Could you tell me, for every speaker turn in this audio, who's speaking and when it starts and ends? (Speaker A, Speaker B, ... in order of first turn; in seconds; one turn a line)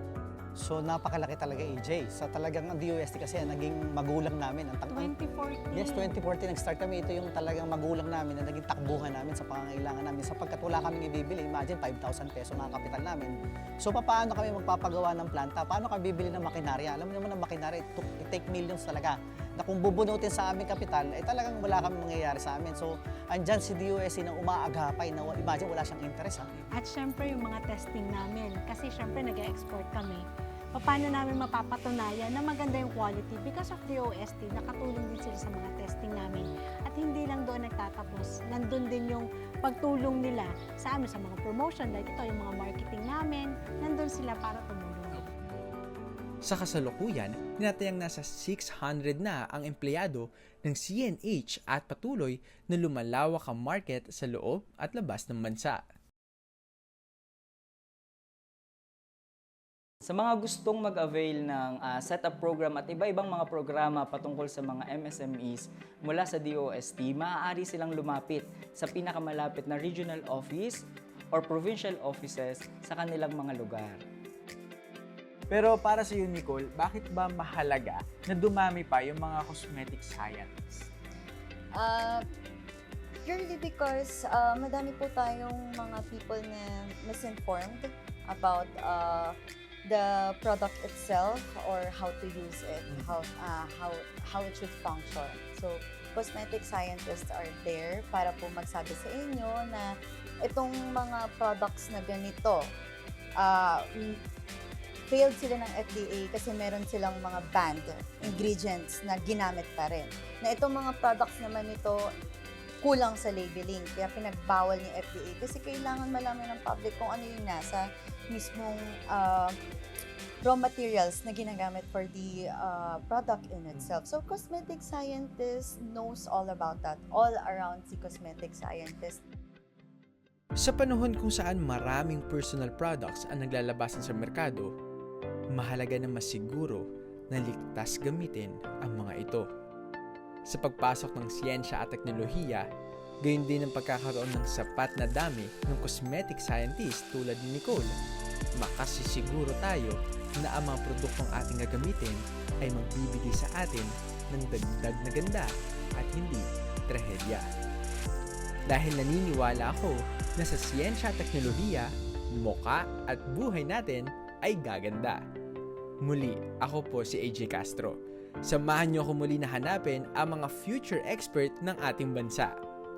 Speaker A: 0.6-5.1
Speaker B: 4.9-6.2
Speaker A: 5.7-26.5
Speaker B: 26.7-45.3
Speaker C: 46.4-55.8
Speaker D: 60.0-74.0
Speaker E: 75.5-80.9
Speaker F: 81.7-82.2
Speaker F: 83.2-102.7
Speaker E: 92.9-93.2
Speaker F: 103.4-104.2
Speaker F: 105.1-112.1
Speaker F: 112.8-119.5
Speaker F: 120.4-129.2
Speaker C: 130.6-134.7
Speaker C: 135.5-139.5
Speaker C: 140.5-142.7
Speaker C: 143.2-147.9
Speaker C: 148.6-157.4
Speaker C: 158.7-165.2
Speaker C: 166.0-172.5